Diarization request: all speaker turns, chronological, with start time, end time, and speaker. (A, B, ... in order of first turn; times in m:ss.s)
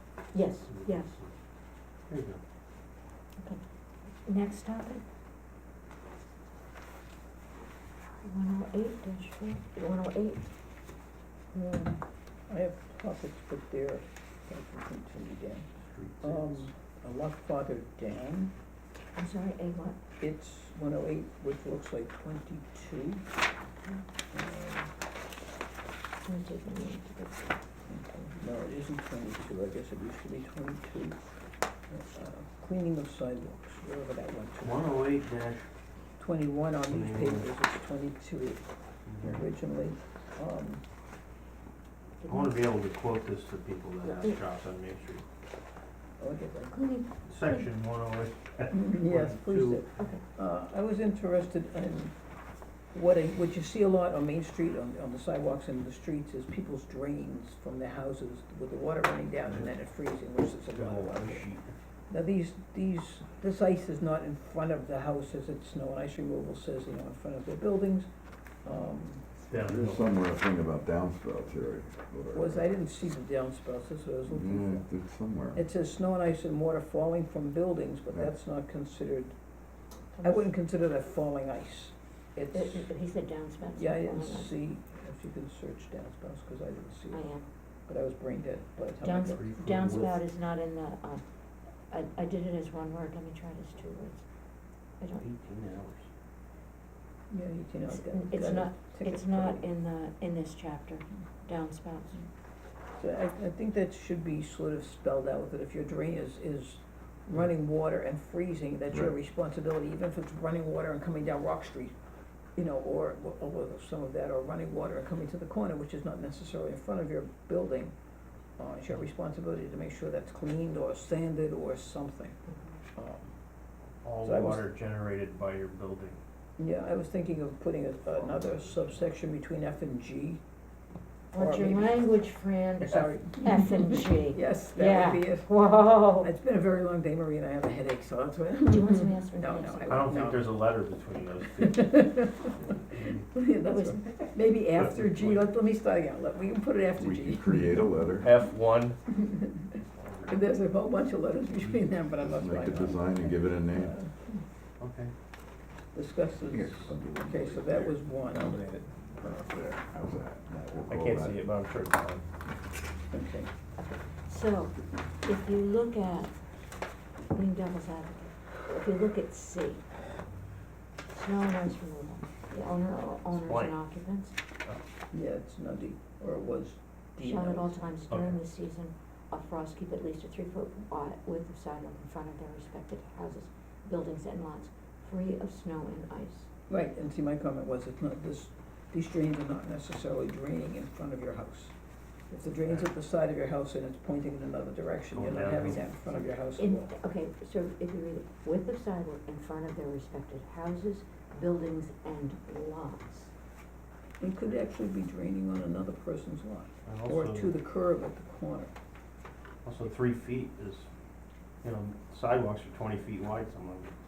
0:00.3-0:01.1 A
0:00.6-0:01.3 B
0:02.1-0:02.4 B
0:04.2-0:05.0 A
0:08.2-0:10.5 A
0:11.5-0:12.0 A
0:12.5-0:15.7 C
0:15.8-0:16.7 B
0:16.2-0:18.5 C
0:19.2-0:20.0 A
0:20.2-0:23.2 C
0:24.3-0:24.9 C
0:26.2-0:27.6 A
0:27.9-0:31.2 C
0:31.9-0:35.0 C
0:34.6-0:35.7 B
0:36.2-0:38.6 C
0:36.9-0:37.5 B
0:39.1-0:39.4 B
0:39.2-0:40.8 C
0:42.2-0:42.6 A
0:42.3-0:45.2 B
0:46.2-0:46.8 C
0:46.7-0:47.7 A
0:47.3-0:49.8 B
0:48.7-0:52.2 C
0:50.0-0:50.2 A
0:52.9-1:01.5 C
1:00.7-1:01.7 B
1:02.1-1:08.1 C
1:08.6-1:09.3 C
1:09.5-1:10.1 B
1:09.5-1:12.7 D
1:12.3-1:14.9 C
1:14.3-1:15.7 D
1:15.6-1:19.4 C
1:20.2-1:22.9 C
1:22.5-1:24.5 A
1:23.8-1:27.3 C
1:27.1-1:27.5 A
1:27.9-1:29.4 C
1:29.0-1:31.2 A
1:29.3-1:30.2 B
1:31.9-1:34.3 A
1:35.2-1:36.1 B
1:37.3-1:39.6 C
1:37.9-1:42.3 A
1:43.0-1:52.0 C
1:52.6-1:58.0 C
1:58.6-2:02.4 C
2:02.5-2:02.7 A
2:03.0-2:03.3 C
2:04.0-2:06.2 B
2:04.2-2:04.7 C
2:06.6-2:10.4 C
2:11.3-2:12.2 C
2:11.3-2:16.3 A
2:12.8-2:20.6 C
2:18.7-2:20.1 A
2:19.9-2:23.3 B
2:21.6-2:22.5 C
2:23.3-2:27.8 C
2:23.6-2:24.1 A
2:24.7-2:25.5 B
2:27.0-2:28.3 D
2:28.2-2:29.0 B
2:29.1-2:29.7 C
2:29.9-2:30.4 B
2:30.3-2:34.2 C
2:32.2-2:34.0 D
2:34.8-2:35.1 B
2:35.9-2:39.6 C
2:36.5-2:41.5 D
2:38.3-2:38.6 B
2:40.9-2:42.2 B
2:43.1-2:43.5 C
2:43.8-2:46.4 A
2:47.3-2:49.9 A
2:51.1-2:54.4 A
2:53.3-2:53.8 B
2:55.1-2:57.8 C
2:57.2-3:06.5 A
2:58.1-2:58.4 B
3:06.7-3:11.7 C
3:12.3-3:17.0 C
3:15.1-3:15.8 B
3:16.6-3:23.3 A
3:24.2-3:28.7 C
3:26.9-3:27.6 B
3:29.6-3:30.9 B
3:31.6-3:33.9 B